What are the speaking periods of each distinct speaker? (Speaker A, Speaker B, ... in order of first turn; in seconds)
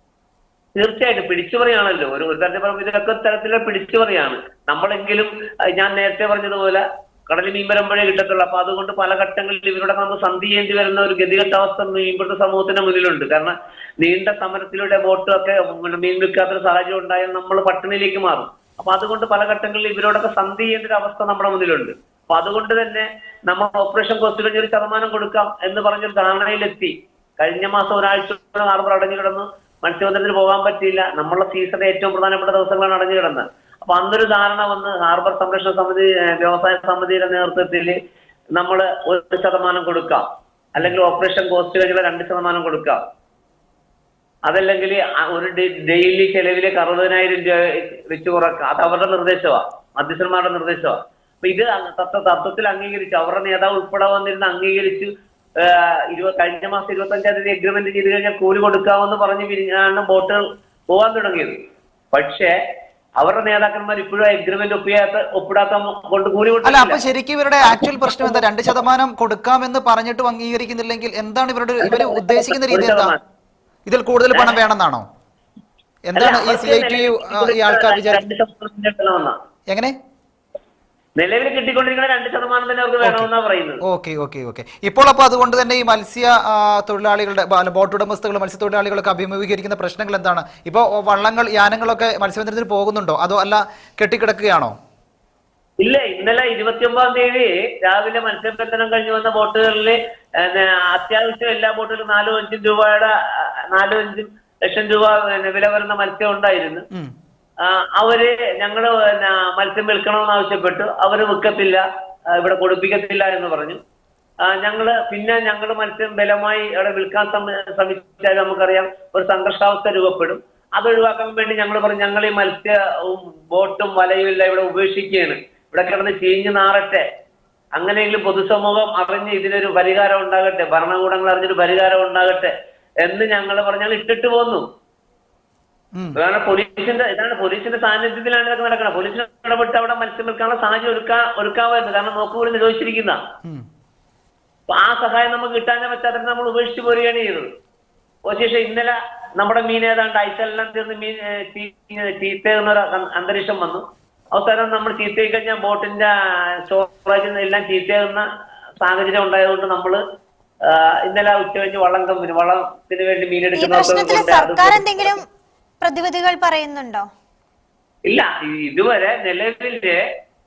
Speaker A: 0.8-38.0, 38.5-40.2, 40.7-43.0, 44.5-55.1, 55.6-61.5, 62.1-62.5, 63.2-67.0, 68.0-68.4, 71.8-73.2, 76.2-79.3, 81.2-83.8, 95.8-106.8, 107.6-111.8, 112.4-113.8, 114.4-127.0, 127.8-132.5, 133.0-134.6, 136.2-143.2, 144.7-147.5, 148.3-153.8, 154.3-158.2, 158.8-160.0, 160.7-165.2, 168.1-170.0
Speaker B: 66.6-73.1, 73.8-75.0, 76.0-78.2, 83.0-83.3, 83.8-94.7, 135.9-136.2
Speaker C: 163.6-165.2, 165.8-167.1